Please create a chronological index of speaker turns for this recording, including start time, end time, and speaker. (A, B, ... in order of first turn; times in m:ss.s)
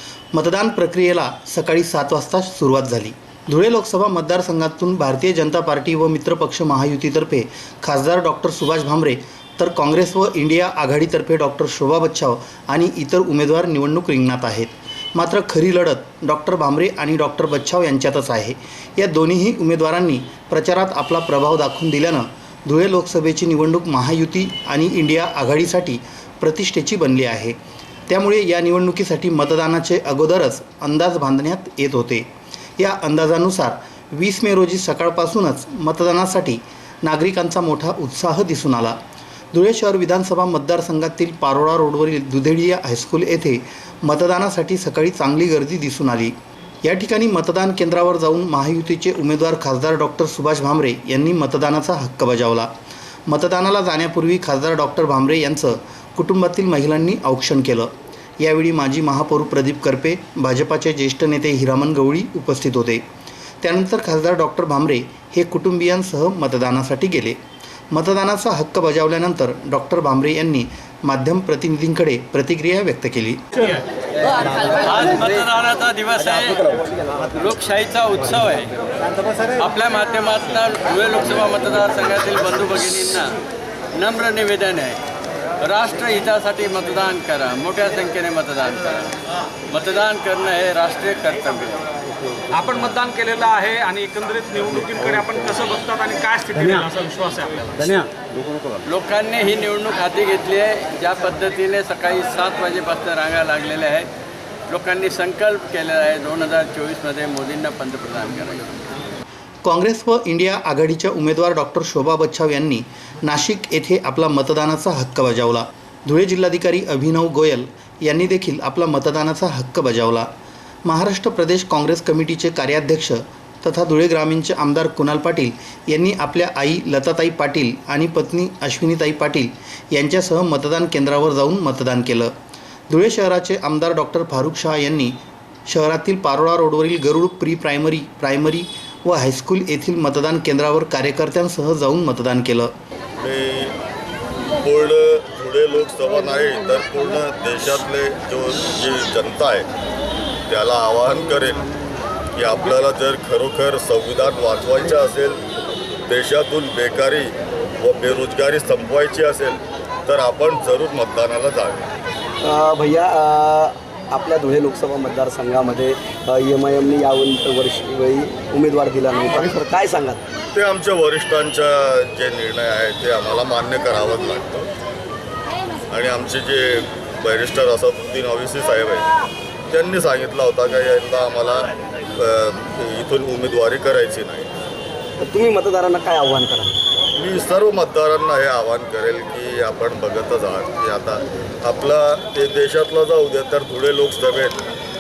0:00.3-0:27.6 A
0:28.1-0:39.0 A
0:39.5-0:52.7 A
0:53.3-1:03.0 A
1:03.6-1:07.4 A
1:07.9-1:13.4 A
1:13.7-1:23.4 B
1:23.9-1:25.0 B
1:25.6-1:31.8 B
1:32.5-1:38.1 C
1:38.6-1:44.1 B
1:44.7-1:48.8 B
1:49.6-2:00.3 A
2:00.8-2:12.3 A
2:12.9-2:22.7 A
2:23.2-2:23.8 D
2:24.6-2:29.7 D
2:30.5-2:31.7 D
2:32.3-2:35.4 D
2:36.1-2:41.9 D
2:42.4-2:50.3 E
2:50.5-2:54.7 D
2:55.9-2:59.1 D
2:59.7-3:04.5 D
3:05.2-3:06.8 E
3:07.2-3:14.6 D